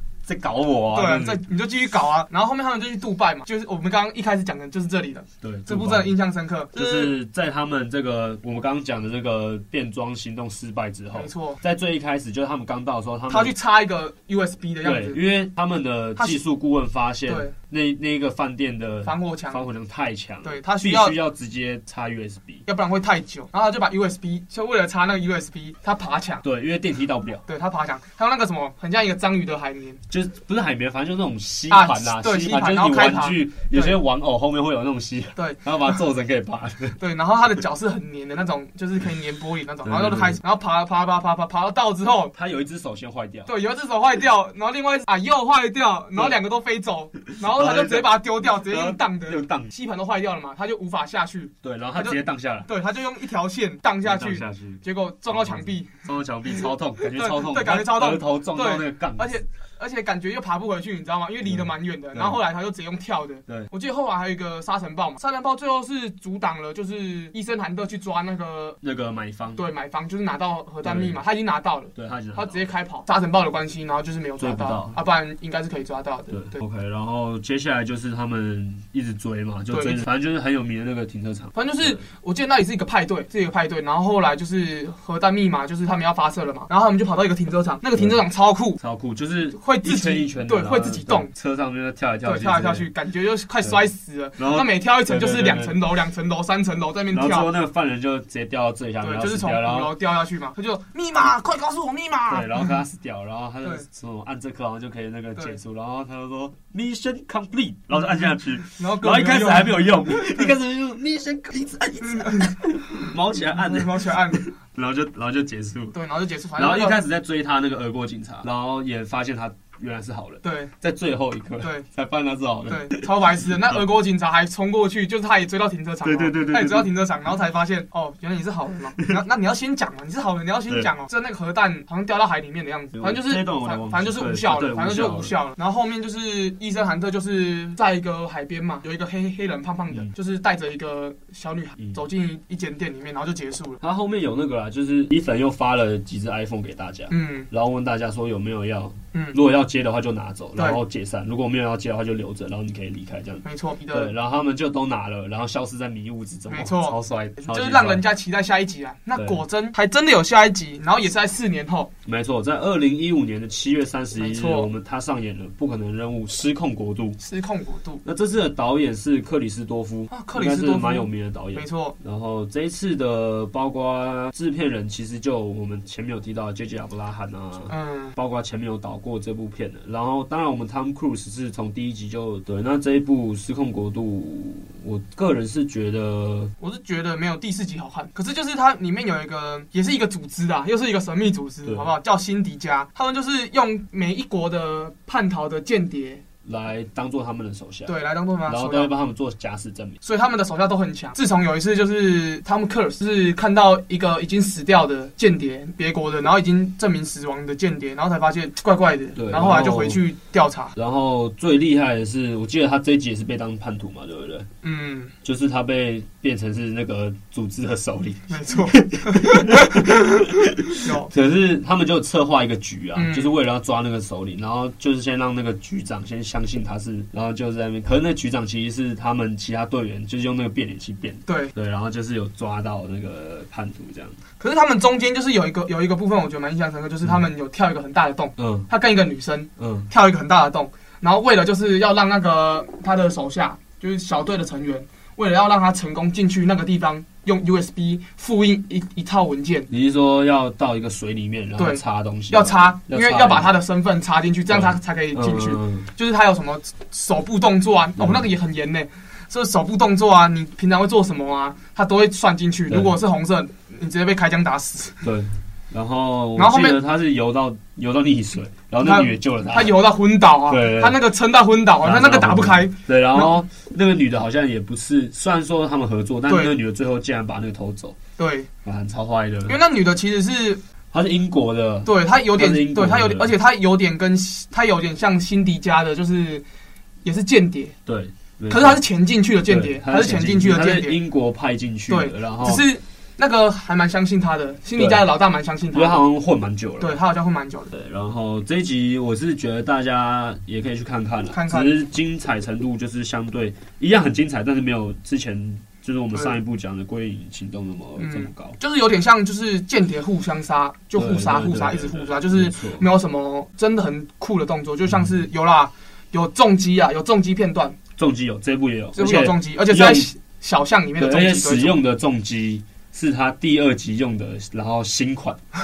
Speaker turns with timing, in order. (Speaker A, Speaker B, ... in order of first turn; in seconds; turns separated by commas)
Speaker A: 0.2-1.4, Speaker B: 0.9-7.1, Speaker A: 5.4-6.2, Speaker A: 6.7-13.5, Speaker B: 11.1-11.6, Speaker B: 13.3-15.2, Speaker A: 14.8-22.6, Speaker B: 17.3-17.5, Speaker B: 19.0-19.6, Speaker B: 20.4-21.1, Speaker B: 22.7-26.4, Speaker A: 26.4-27.4, Speaker B: 27.5-30.0, Speaker A: 30.1-37.0, Speaker B: 31.7-34.0, Speaker B: 35.4-35.6, Speaker B: 37.0-42.3, Speaker A: 39.8-40.4, Speaker A: 42.3-43.5, Speaker B: 43.5-55.9, Speaker A: 47.3-49.7, Speaker A: 51.6-52.7, Speaker A: 54.0-59.4, Speaker B: 57.1-68.8, Speaker A: 61.5-62.4, Speaker A: 68.8-69.6, Speaker B: 69.5-76.6, Speaker A: 70.8-71.2, Speaker A: 71.9-72.6, Speaker A: 74.4-75.0, Speaker A: 76.3-82.0, Speaker B: 79.7-80.0, Speaker B: 81.5-88.8, Speaker A: 88.8-92.9, Speaker B: 89.5-91.3, Speaker B: 92.2-97.5, Speaker A: 94.4-95.8, Speaker A: 97.1-99.9, Speaker B: 99.0-102.7, Speaker A: 102.3-116.0, Speaker B: 108.8-110.5, Speaker B: 112.0-112.5, Speaker B: 113.5-114.5, Speaker B: 115.9-117.0, Speaker A: 116.5-123.0, Speaker B: 120.4-120.7, Speaker B: 121.6-121.8, Speaker B: 122.7-143.8, Speaker A: 126.0-126.9, Speaker A: 132.9-135.3, Speaker A: 143.8-158.1, Speaker B: 147.1-147.5, Speaker B: 149.1-149.4, Speaker B: 153.4-154.1, Speaker B: 156.5-161.9, Speaker A: 159.2-159.4, Speaker A: 162.0-167.2, Speaker B: 164.2-164.7, Speaker B: 167.2-168.0, Speaker A: 168.0-186.5, Speaker B: 170.1-171.9, Speaker B: 177.7-178.1, Speaker B: 186.6-196.2, Speaker A: 191.6-191.9, Speaker A: 196.4-200.0, Speaker B: 197.8-198.9, Speaker B: 200.0-210.7, Speaker A: 209.2-210.0, Speaker A: 210.7-214.5, Speaker B: 214.6-215.1, Speaker A: 215.2-234.2, Speaker B: 218.3-220.0, Speaker B: 220.8-221.1, Speaker B: 222.9-223.3, Speaker B: 231.2-231.5, Speaker B: 234.4-249.7, Speaker A: 238.4-238.7, Speaker A: 239.6-239.9, Speaker A: 249.7-253.6, Speaker B: 251.6-265.0, Speaker A: 254.5-255.9, Speaker A: 258.0-258.2, Speaker A: 262.7-263.0, Speaker A: 265.0-269.9, Speaker B: 266.4-266.8, Speaker B: 268.8-273.3, Speaker A: 270.4-271.0, Speaker A: 271.8-278.0, Speaker B: 276.3-276.5, Speaker B: 278.2-278.5, Speaker A: 278.6-279.6, Speaker B: 279.5-280.6, Speaker A: 280.9-283.3, Speaker B: 281.8-286.4, Speaker B: 287.0-287.7, Speaker A: 287.9-288.8, Speaker B: 288.5-291.0, Speaker A: 289.5-292.6, Speaker B: 291.9-296.0, Speaker A: 294.7-295.1, Speaker A: 295.7-297.0, Speaker B: 296.8-297.7, Speaker A: 297.7-308.6, Speaker B: 301.3-301.7, Speaker B: 306.1-306.4, Speaker B: 308.0-317.8, Speaker A: 310.9-312.9, Speaker A: 314.9-315.1, Speaker A: 318.0-320.1, Speaker B: 318.9-321.8, Speaker A: 321.0-325.4